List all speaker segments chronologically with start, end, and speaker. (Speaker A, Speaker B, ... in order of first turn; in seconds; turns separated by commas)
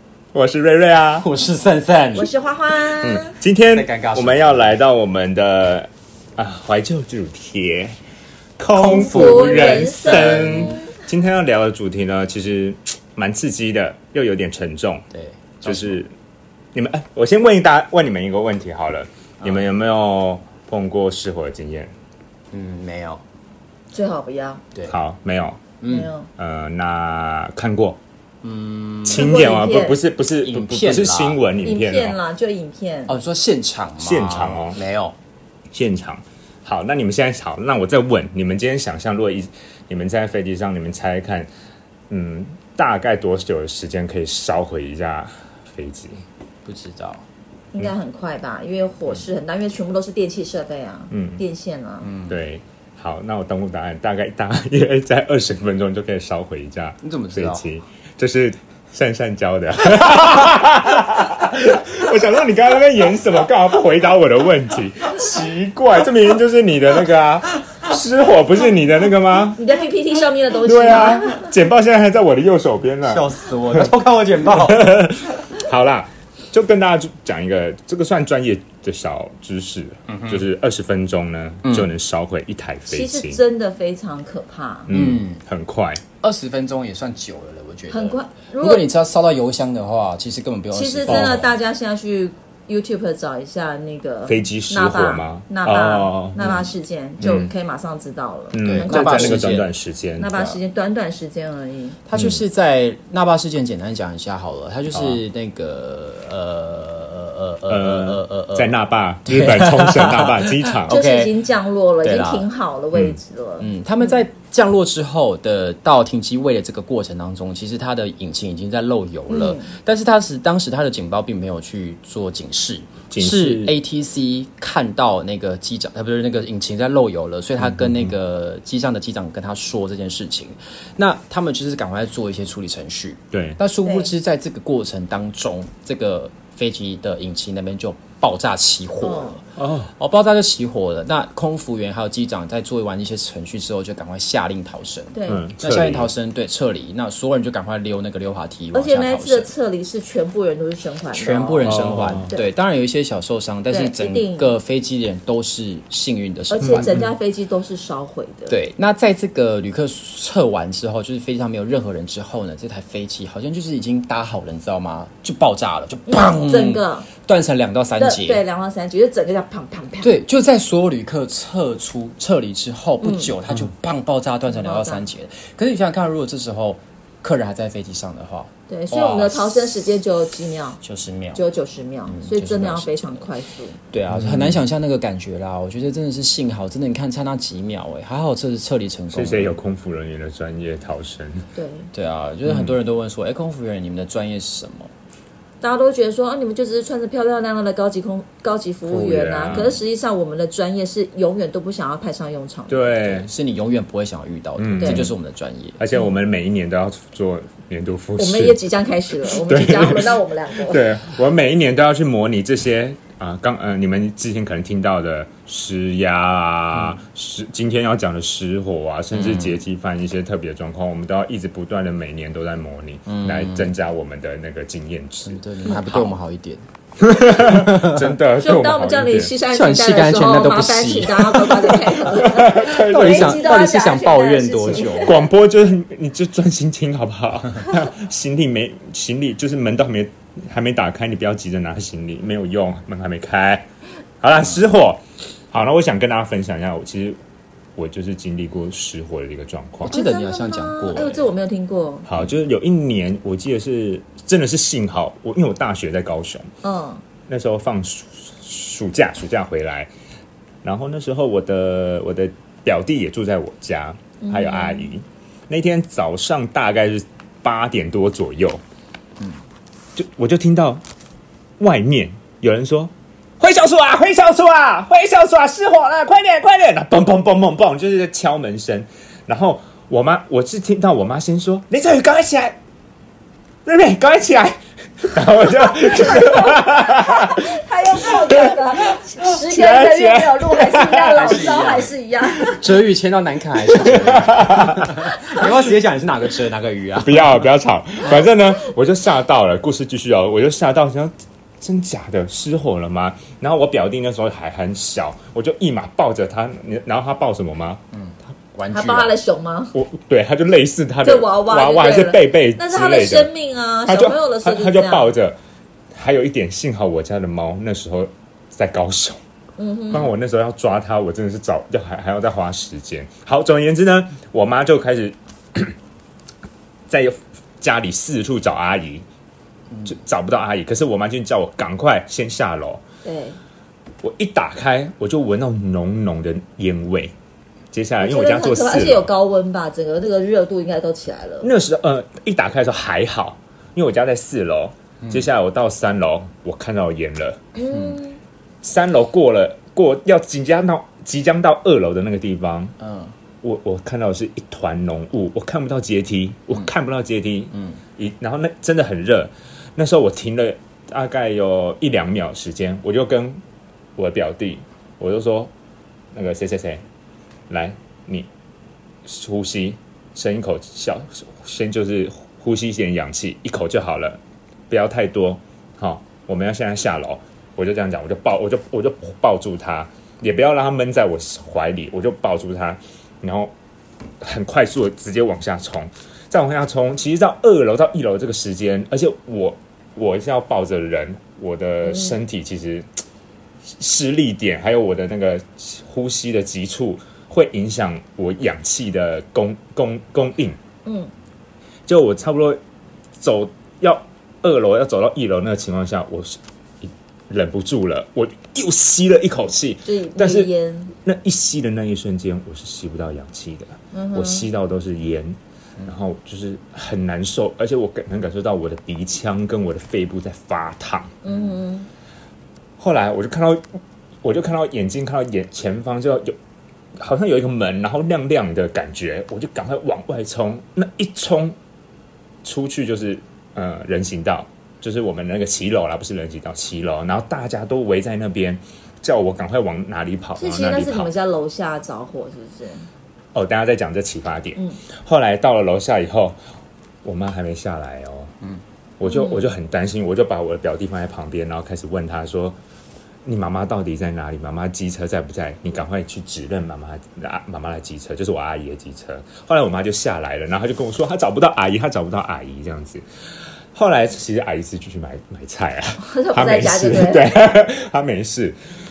Speaker A: 0.3-1.3, Speaker B: 1.2-2.3, Speaker C: 2.1-3.4, Speaker A: 3.0-8.0, Speaker B: 3.7-4.8, Speaker A: 8.6-15.1, Speaker C: 8.8-10.8, Speaker B: 8.8-10.8, Speaker B: 15.1-16.0, Speaker A: 15.6-16.1, Speaker A: 16.7-21.9, Speaker B: 22.5-23.2, Speaker C: 23.9-24.6, Speaker A: 24.9-25.6, Speaker B: 25.8-26.1, Speaker C: 25.9-26.3, Speaker A: 26.4-28.0, Speaker B: 28.4-29.3, Speaker A: 29.0-32.2, Speaker C: 29.1-30.0, Speaker B: 30.4-31.4, Speaker C: 31.6-33.2, Speaker B: 33.1-35.1, Speaker A: 34.0-34.8, Speaker A: 35.7-41.5, Speaker A: 42.1-46.2, Speaker B: 46.6-47.2, Speaker C: 47.7-52.1, Speaker A: 51.1-51.4, Speaker B: 52.0-52.4, Speaker A: 52.3-69.6, Speaker B: 57.0-57.7, Speaker C: 69.5-71.5, Speaker A: 70.6-73.9, Speaker B: 73.0-75.1, Speaker A: 74.5-83.4, Speaker B: 80.1-80.4, Speaker B: 81.6-81.9, Speaker C: 82.9-84.9, Speaker A: 84.9-86.0, Speaker B: 84.9-85.4, Speaker B: 86.2-91.5, Speaker C: 87.9-88.9, Speaker C: 90.7-99.5, Speaker A: 91.1-91.4, Speaker A: 94.2-96.5, Speaker B: 96.4-97.4, Speaker A: 97.2-97.5, Speaker A: 98.5-100.3, Speaker B: 98.5-99.7, Speaker C: 100.1-102.0, Speaker B: 100.3-100.6, Speaker B: 102.0-111.4, Speaker A: 102.1-102.4, Speaker A: 104.9-105.2, Speaker A: 107.7-110.9, Speaker C: 110.9-114.1, Speaker B: 112.0-112.5, Speaker B: 113.6-149.5, Speaker C: 119.3-119.7, Speaker A: 123.1-123.8, Speaker A: 127.6-128.0, Speaker A: 133.3-133.6, Speaker C: 133.8-134.1, Speaker C: 139.0-139.4, Speaker A: 139.6-139.9, Speaker C: 145.1-145.6, Speaker A: 145.3-146.1, Speaker C: 148.7-152.4, Speaker B: 151.1-156.9, Speaker A: 151.7-152.3, Speaker C: 153.7-154.5, Speaker C: 156.5-158.6, Speaker A: 156.6-157.1, Speaker B: 158.5-168.4, Speaker C: 166.1-167.1, Speaker C: 167.9-170.2, Speaker B: 170.0-179.8, Speaker C: 173.0-173.3, Speaker C: 174.5-175.1, Speaker C: 178.7-180.8, Speaker B: 180.8-181.4, Speaker C: 181.3-183.8, Speaker B: 182.1-183.3, Speaker B: 183.9-189.6, Speaker A: 184.1-184.6, Speaker A: 189.1-191.4, Speaker C: 191.5-191.9, Speaker B: 191.9-194.9, Speaker A: 192.4-192.8, Speaker C: 195.6-203.2, Speaker A: 198.9-199.8, Speaker B: 199.5-199.7, Speaker A: 202.7-203.3, Speaker B: 203.2-205.8, Speaker A: 204.6-205.1, Speaker C: 204.8-205.1, Speaker A: 205.8-208.6, Speaker C: 208.2-211.1, Speaker A: 209.2-226.0, Speaker B: 219.1-219.6, Speaker B: 223.1-223.7, Speaker B: 225.2-226.7, Speaker C: 225.7-226.0, Speaker A: 227.0-229.3, Speaker B: 227.4-228.1, Speaker C: 228.3-235.3, Speaker B: 229.5-235.2, Speaker A: 232.1-233.4, Speaker A: 234.9-243.7, Speaker A: 244.2-247.2, Speaker A: 247.8-250.0, Speaker B: 249.8-251.3, Speaker C: 249.8-252.1, Speaker A: 252.1-256.5, Speaker C: 256.6-257.0, Speaker A: 257.3-259.9, Speaker A: 260.6-268.6, Speaker C: 264.2-264.9, Speaker A: 269.9-270.8, Speaker A: 271.6-282.6, Speaker A: 283.6-287.4, Speaker C: 285.5-292.8, Speaker A: 288.1-291.2, Speaker B: 291.1-297.5, Speaker A: 293.7-295.0, Speaker A: 296.9-307.8, Speaker B: 307.9-309.1, Speaker C: 308.7-309.7, Speaker A: 309.7-313.3, Speaker C: 311.0-315.1, Speaker A: 313.9-315.4, Speaker A: 315.9-319.2, Speaker C: 319.6-320.1, Speaker A: 319.9-325.7, Speaker A: 326.9-329.0, Speaker A: 329.8-332.8, Speaker C: 333.0-333.4, Speaker A: 334.0-337.1, Speaker A: 337.7-339.1, Speaker C: 338.0-341.5, Speaker A: 341.4-347.4, Speaker B: 345.0-345.3, Speaker C: 347.5-348.2, Speaker B: 347.6-348.0, Speaker A: 348.6-352.7, Speaker B: 352.8-353.1, Speaker A: 353.4-363.4, Speaker B: 357.5-357.8, Speaker A: 364.0-365.5, Speaker A: 366.1-366.8, Speaker A: 367.5-368.3, Speaker A: 369.1-383.5, Speaker A: 384.2-392.9, Speaker C: 391.8-392.1, Speaker A: 393.8-400.6, Speaker C: 400.8-401.1, Speaker A: 401.9-402.6, Speaker A: 403.2-421.1, Speaker C: 409.8-410.9, Speaker C: 413.9-414.5, Speaker C: 421.2-421.9, Speaker A: 422.8-423.6, Speaker A: 424.2-426.3, Speaker A: 427.0-431.6, Speaker A: 432.4-441.1, Speaker C: 440.4-442.9, Speaker A: 443.3-446.4, Speaker C: 444.5-444.8, Speaker A: 447.0-448.3, Speaker A: 449.0-452.6, Speaker C: 449.0-449.4, Speaker A: 453.2-463.0, Speaker A: 463.7-468.6, Speaker C: 466.0-467.5